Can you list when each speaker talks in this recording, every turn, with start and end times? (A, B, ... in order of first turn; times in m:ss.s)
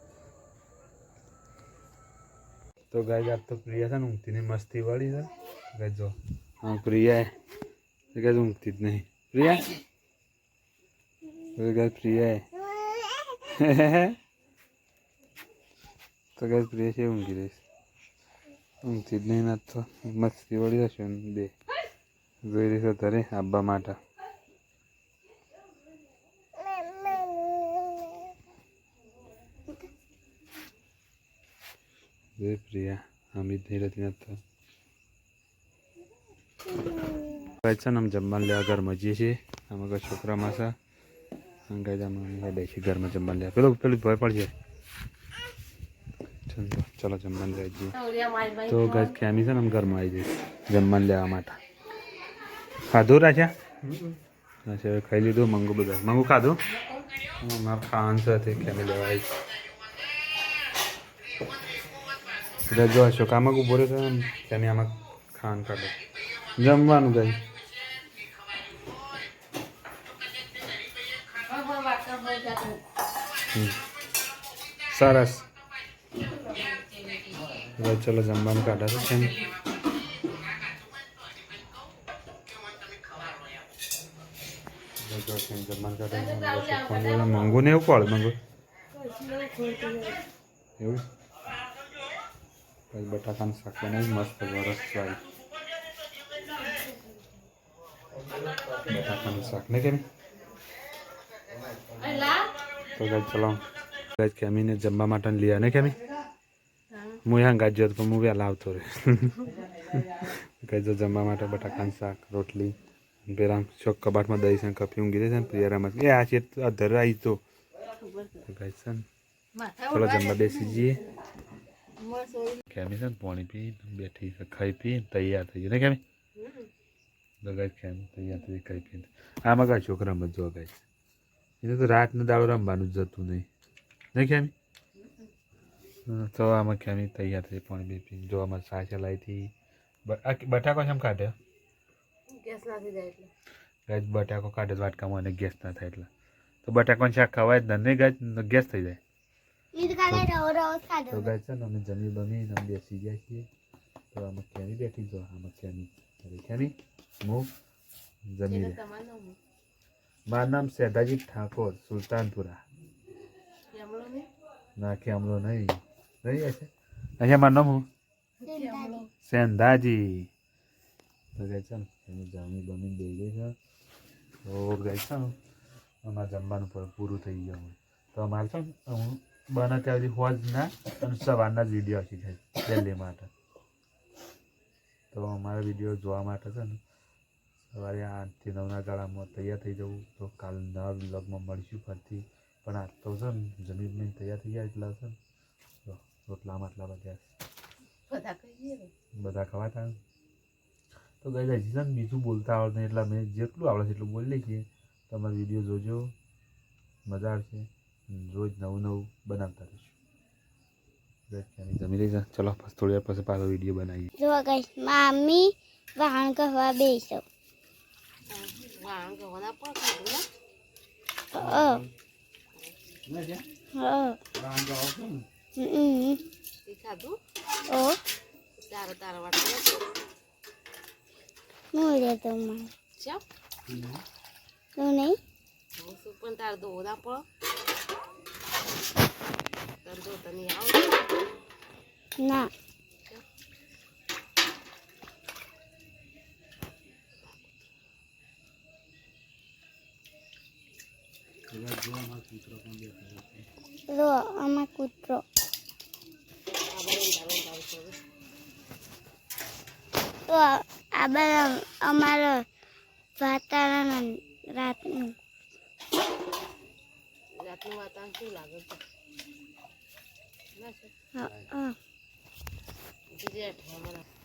0:02.9-0:07.4 A
0:08.1-0:09.8 A
0:11.6-0:12.5 A
0:13.4-0:14.2 A
0:16.4-0:17.6 A
0:18.8-0:21.5 A
0:22.4-0:24.0 A
0:32.4-0:34.4 A
0:36.8-0:37.2 B
0:37.6-0:40.7 A
0:41.7-0:44.5 A
0:46.5-0:48.0 A
0:47.9-0:49.2 C
0:48.7-0:51.6 A
0:52.9-0:54.0 A
0:54.6-0:56.6 A
0:57.4-0:59.3 A
1:02.6-1:06.0 A
1:06.6-1:07.4 A
1:11.4-1:12.8 C
1:13.5-1:13.8 A
1:14.9-1:15.5 A
1:16.3-1:17.4 C
1:17.6-1:19.4 A
1:25.0-1:28.4 A
1:29.0-1:30.2 C
1:30.8-1:31.1 A
1:32.9-1:35.2 A
1:38.7-1:40.1 A
1:42.0-1:42.5 C
1:43.0-1:43.6 A
1:44.2-1:46.0 A
1:46.9-1:47.2 C
1:47.2-1:52.8 A
1:53.3-1:57.4 A
1:58.0-1:58.5 C
1:58.4-1:59.0 A
1:59.5-2:01.0 C
1:59.9-2:01.0 A
2:02.0-2:02.6 C
2:02.7-2:06.0 A
2:06.4-2:06.7 C
2:07.4-2:10.8 A
2:11.6-2:13.5 A
2:14.1-2:14.5 A
2:16.1-2:19.5 A
2:20.0-2:21.4 A
2:22.3-2:23.3 C
2:23.9-2:26.1 A
2:26.6-2:29.0 A
2:29.7-2:31.4 B
2:30.0-2:30.3 A
2:31.1-2:33.5 A
2:34.1-2:37.5 A
2:38.3-2:38.8 A
2:38.5-2:39.4 C
2:40.3-2:42.6 A
2:43.7-2:44.3 C
2:44.8-2:47.9 A
2:48.4-2:49.1 C
2:48.5-2:49.0 B
2:49.2-2:50.3 A
2:51.4-2:53.6 A
2:54.4-2:55.4 A
2:56.0-3:03.3 A
3:05.1-3:06.8 A
3:07.7-3:15.2 A
3:15.8-3:17.3 A
3:18.1-3:18.9 C
3:19.2-3:20.0 A
3:21.2-3:26.1 A
3:27.1-3:30.0 A
3:31.3-3:34.1 A
3:34.2-3:37.2 B
3:38.3-3:40.3 C
3:41.3-3:41.8 B
3:41.3-3:41.9 A
3:43.1-3:43.4 A
3:43.7-3:44.2 B
3:44.3-3:45.3 A
3:45.6-3:46.2 B
3:46.7-3:47.2 C
3:47.7-3:48.0 B
3:48.6-3:49.9 C
3:51.7-3:52.7 B
3:53.0-3:53.2 C
3:53.7-3:54.0 A
3:54.8-3:55.2 B
3:55.8-3:57.3 C
3:59.8-4:01.4 C
4:02.2-4:02.5 B
4:11.5-4:13.5 A
4:13.9-4:15.2 B
4:16.7-4:18.0 C
4:20.3-4:22.4 B
4:23.2-4:25.2 B
4:27.4-4:28.8 C
4:30.6-4:30.9 C
4:31.2-4:31.8 B
4:33.1-4:34.0 C